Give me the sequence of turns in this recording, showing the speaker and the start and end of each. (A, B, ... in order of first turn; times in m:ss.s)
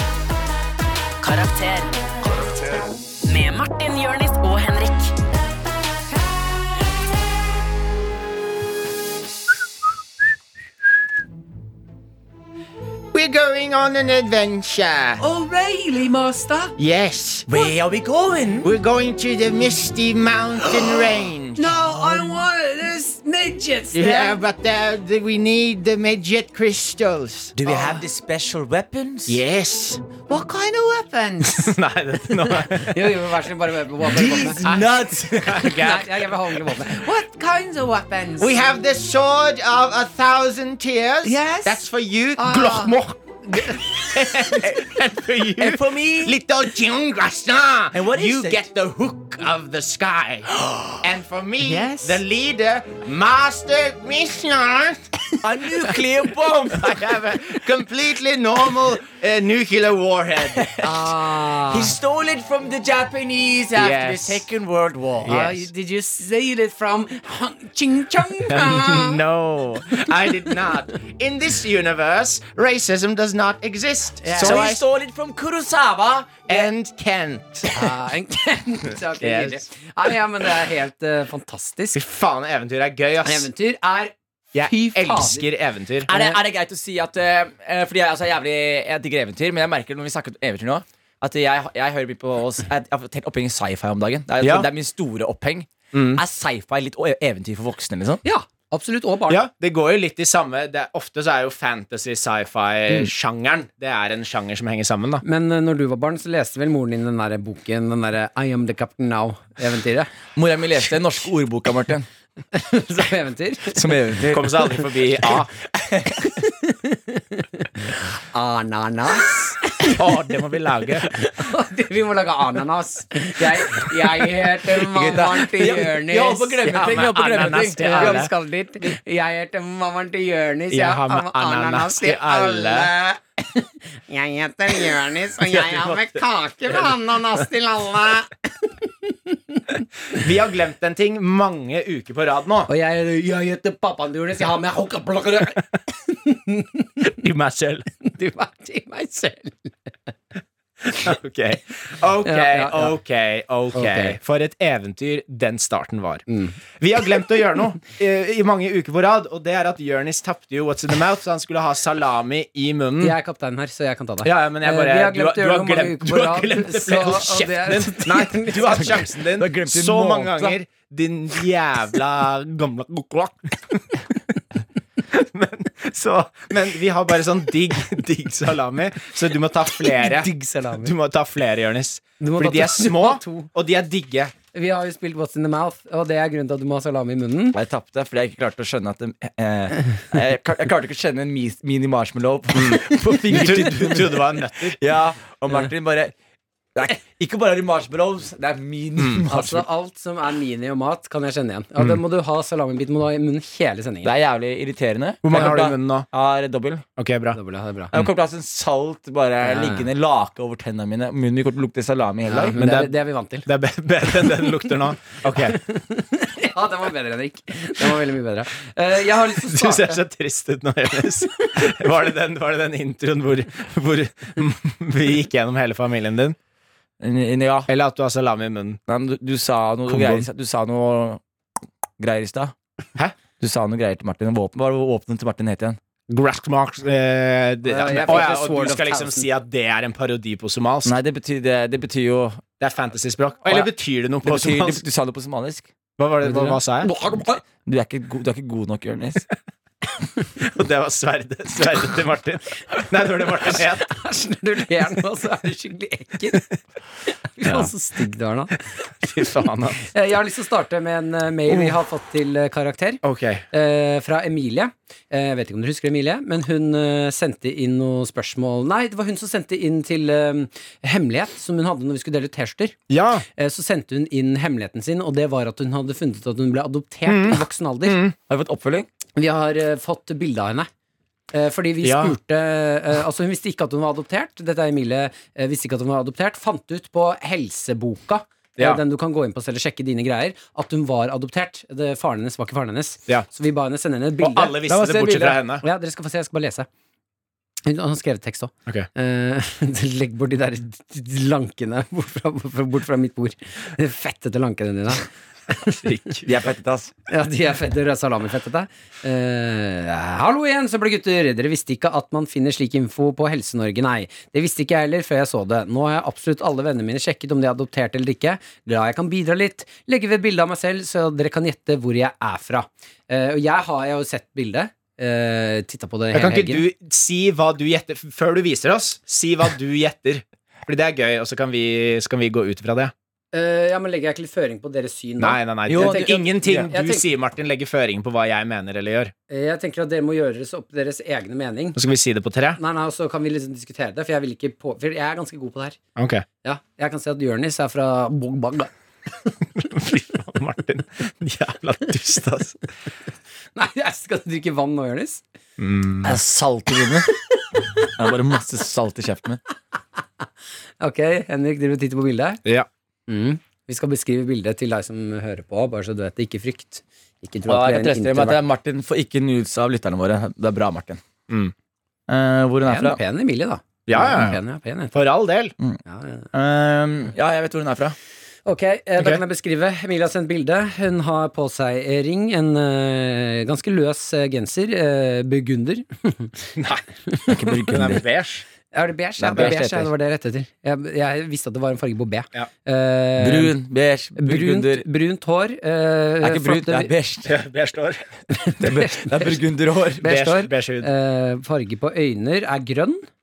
0:01.2-0:05.1 A
0:13.1-0:15.2 B
0:15.2-0:16.8 C
0:16.8-0:17.6 B
0:17.5-0:18.7 D
0:18.6-0:21.8 B
0:21.6-0:24.4 C
0:23.9-0:28.0 B
0:27.6-0:29.4 D
0:29.3-0:30.6 B
0:31.2-0:31.5 C
0:31.4-0:33.3 B
0:32.8-0:34.6 C
0:34.1-0:35.7 D
0:34.1-0:36.9 B
0:35.6-0:38.4 C
0:38.4-0:55.7 B
0:41.2-0:41.8 C
0:42.4-0:43.0 C
0:45.6-0:46.4 D
0:47.9-0:48.7 D
0:50.6-0:51.0 D
0:55.4-0:57.2 D
0:56.7-1:00.7 B
1:00.5-1:05.4 D
1:00.8-1:01.9 C
1:03.8-1:04.5 B
1:05.2-1:05.7 B
1:05.3-1:09.2 C
1:08.5-1:14.8 B
1:14.2-1:14.6 C
1:14.4-1:16.7 D
1:16.5-1:17.9 B
1:17.7-1:22.0 C
1:19.2-1:19.6 B
1:21.9-1:23.5 B
1:23.2-1:25.5 C
1:24.5-1:26.1 B
1:26.1-1:26.4 C
1:26.1-1:38.2 D
1:34.4-1:34.7 B
1:35.9-1:36.2 B
1:38.2-1:39.4 C
1:39.3-1:45.2 B
1:45.2-1:50.1 C
1:50.4-1:52.1 D
1:52.5-1:54.0 C
1:53.7-1:56.2 D
1:54.3-1:55.5 B
1:56.3-2:00.0 C
1:59.8-2:01.1 B
2:01.0-2:19.8 C
2:04.8-2:08.3 D
2:06.6-2:08.3 B
2:10.7-2:12.9 B
2:15.4-2:17.0 B
2:20.1-2:22.7 B
2:22.7-2:27.1 C
2:27.0-2:27.9 B
2:28.0-2:30.1 C
2:30.8-2:36.2 B
2:32.2-2:33.0 C
2:33.7-2:34.2 C
2:36.3-2:36.6 C
2:36.8-2:43.2 B
2:43.0-2:49.0 C
2:44.2-2:54.0 B
2:48.7-2:50.6 D
2:55.1-3:04.3 B
2:59.9-3:00.9 C
3:02.2-3:03.5 C
3:04.5-3:07.6 C
3:07.5-3:16.1 D
3:12.5-3:14.8 B
3:16.8-3:19.6 D
3:19.0-3:19.3 B
3:19.3-3:24.1 C
3:24.0-3:26.8 D
3:25.2-3:26.1 B
3:27.0-3:27.4 B
3:27.3-3:27.9 C
3:27.9-3:32.6 D
3:29.4-3:29.9 C
3:32.3-3:33.5 C
3:32.6-3:32.9 B
3:33.5-3:35.6 B
3:35.5-3:40.0 C
3:39.4-3:46.4 B
3:47.0-3:47.7 D
3:47.7-3:48.8 B
3:48.9-3:51.2 D
3:49.9-3:50.3 B
3:52.0-3:52.5 D
3:53.4-3:55.8 D
3:56.1-4:00.9 B
3:57.7-3:59.3 C
4:00.8-4:02.4 D
4:02.6-4:04.8 B
4:03.4-4:03.7 D
4:04.2-4:05.7 D
4:06.0-4:06.9 B
4:06.3-4:09.3 D
4:10.4-4:13.9 B
4:13.8-4:16.5 C
4:17.4-4:18.6 C
4:17.4-4:17.7 B
4:19.0-4:19.9 B
4:19.8-4:32.8 C
4:23.0-4:23.4 B
4:32.9-4:33.3 B
4:33.3-4:38.0 C
4:37.1-4:38.2 B
4:38.3-4:38.9 D
4:39.2-4:40.7 C
4:41.3-4:54.6 C
4:41.8-4:42.2 B
4:54.2-4:55.6 B
4:54.7-4:55.4 D
4:55.6-4:56.7 C
4:57.6-5:05.8 C
5:05.8-5:06.5 B
5:06.2-5:06.9 D
5:07.1-5:26.6 C
5:26.1-5:32.9 B
5:33.3-5:37.1 C
5:35.2-5:39.1 B
5:35.7-5:36.7 D
5:39.3-5:41.8 C
5:41.8-5:42.6 B
5:42.6-5:45.8 C
5:46.0-5:46.2 B
5:46.4-5:48.7 C
5:49.6-5:52.6 B
5:53.6-5:55.2 C
5:55.6-5:56.2 B
5:56.0-5:57.1 D
5:58.0-5:59.4 D
6:00.8-6:02.4 C
6:03.1-6:08.4 C
6:07.5-6:11.0 D
6:11.3-6:11.5 B
6:12.1-6:13.0 D
6:12.7-6:14.9 C
6:13.9-6:14.4 B
6:14.9-6:15.5 B
6:15.9-6:16.3 C
6:16.3-6:18.0 D
6:18.5-6:26.4 C
6:26.6-6:28.4 B
6:27.3-6:28.0 D
6:28.7-6:33.5 C
6:29.2-6:29.9 D
6:33.2-6:34.8 D
6:34.2-6:36.9 C
6:36.2-6:37.3 D
6:37.2-6:38.0 B
6:38.3-6:39.4 C
6:38.6-6:40.0 D
6:40.0-6:43.1 C
6:40.0-6:40.9 B